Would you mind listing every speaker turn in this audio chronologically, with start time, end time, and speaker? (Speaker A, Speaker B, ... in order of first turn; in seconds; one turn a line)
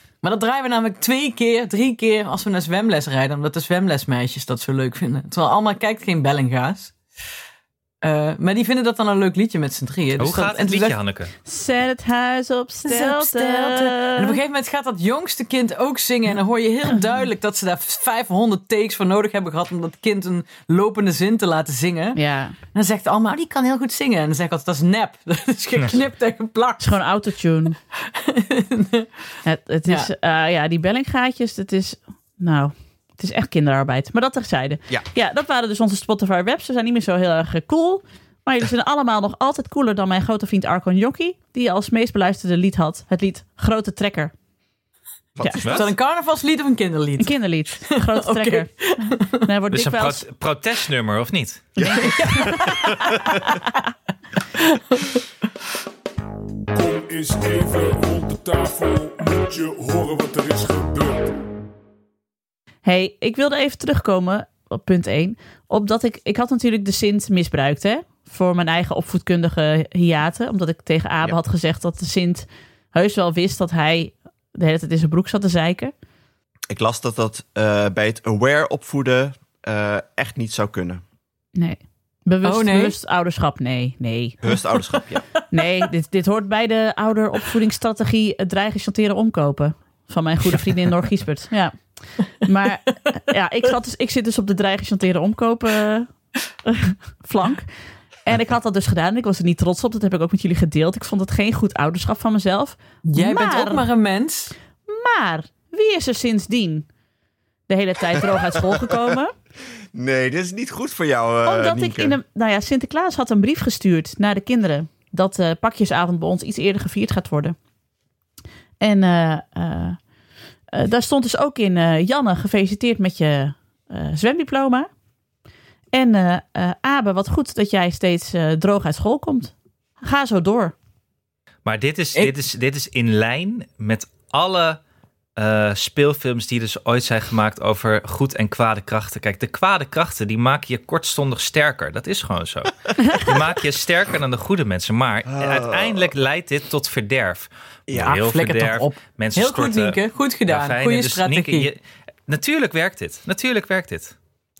Speaker A: 0.2-6.9
Speaker A: 8.0-11.0
Speaker B: 10.2-11.3
Speaker C: 11.4-14.4
Speaker A: 12.8-22.2
Speaker C: 22.1-22.6
Speaker A: 22.7-26.9
Speaker C: 26.8-27.8
Speaker A: 28.1-29.1
Speaker C: 29.4-44.3
Speaker D: 45.4-45.9
Speaker B: 45.6-45.9
Speaker A: 45.6-47.4
Speaker C: 47.2-50.2
Speaker A: 47.9-49.4
Speaker B: 49.7-51.7
Speaker D: 51.8-53.5
Speaker C: 51.8-52.6
Speaker A: 52.0-52.9
Speaker C: 53.3-53.7
Speaker A: 54.6-55.2
Speaker E: 56.7-61.4
Speaker C: 62.8-75.9
Speaker D: 76.7-81.0
Speaker C: 81.5-84.4
Speaker A: 82.4-83.0
Speaker D: 84.4-85.2
Speaker C: 85.5-96.1
Speaker C: 96.6-97.7
Speaker C: 98.2-103.9
Speaker A: 103.0-104.5
Speaker C: 104.8-106.9
Speaker C: 107.7-109.3
Speaker D: 109.9-112.2
Speaker C: 111.4-117.5
Speaker C: 118.8-120.0
Speaker C: 120.7-124.9
Speaker C: 125.9-130.7
Speaker B: 131.6-134.8
Speaker B: 135.3-154.1
Speaker D: 145.2-146.1
Speaker D: 147.9-148.2
Speaker A: 148.0-151.7